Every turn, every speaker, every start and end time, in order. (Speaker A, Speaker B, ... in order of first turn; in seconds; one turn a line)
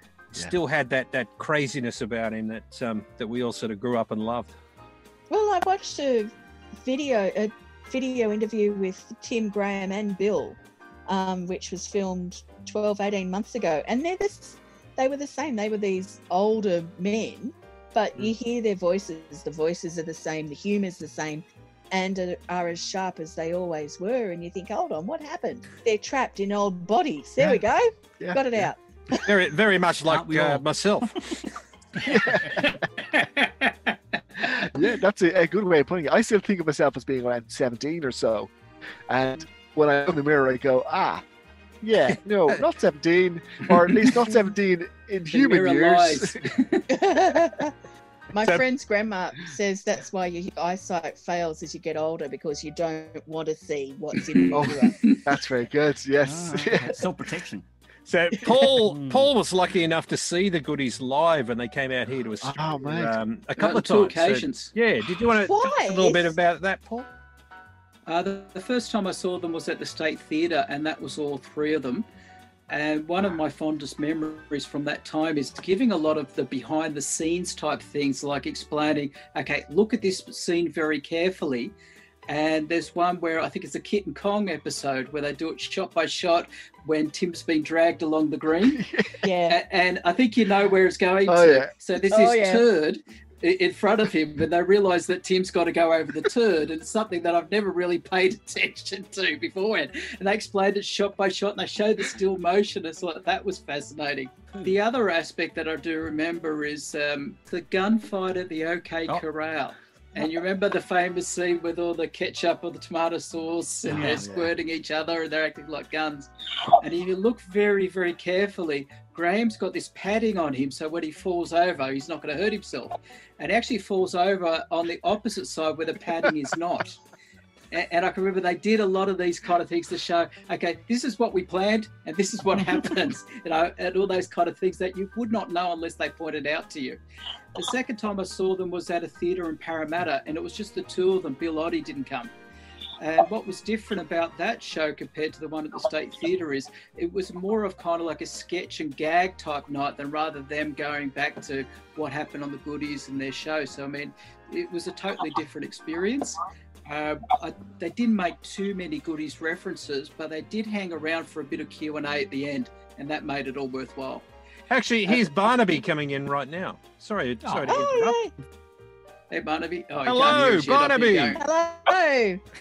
Speaker A: 0.3-4.5
Speaker B: 5.3-29.2
Speaker C: 28.2-28.7
Speaker A: 29.1-31.4
Speaker D: 30.0-30.7
Speaker C: 32.0-32.8
Speaker D: 32.0-32.6
Speaker E: 33.6-33.9
Speaker C: 34.4-38.5
Speaker C: 39.1-41.2
Speaker C: 41.8-46.5
Speaker A: 42.1-42.6
Speaker E: 45.3-46.9
Speaker B: 46.9-47.7
Speaker B: 48.3-55.0
Speaker C: 48.4-48.6
Speaker E: 54.3-55.2
Speaker C: 54.5-57.1
Speaker D: 56.2-57.6
Speaker A: 58.1-67.1
Speaker D: 58.5-59.3
Speaker C: 62.4-63.2
Speaker E: 63.6-64.7
Speaker B: 65.4-66.4
Speaker E: 68.1-72.0
Speaker E: 72.7-81.7
Speaker E: 82.3-88.8
Speaker C: 88.7-89.2
Speaker B: 89.2-89.6
Speaker E: 89.5-127.0
Speaker C: 91.2-91.7
Speaker B: 92.1-92.6
Speaker D: 104.5-104.8
Speaker D: 113.9-114.2
Speaker C: 113.9-114.5
Speaker E: 127.7-137.0
Speaker E: 137.6-142.3
Speaker E: 143.0-164.2
Speaker A: 164.7-168.2
Speaker D: 167.4-168.2
Speaker B: 167.7-168.3
Speaker E: 169.3-171.4
Speaker A: 170.0-171.4
Speaker B: 171.4-172.4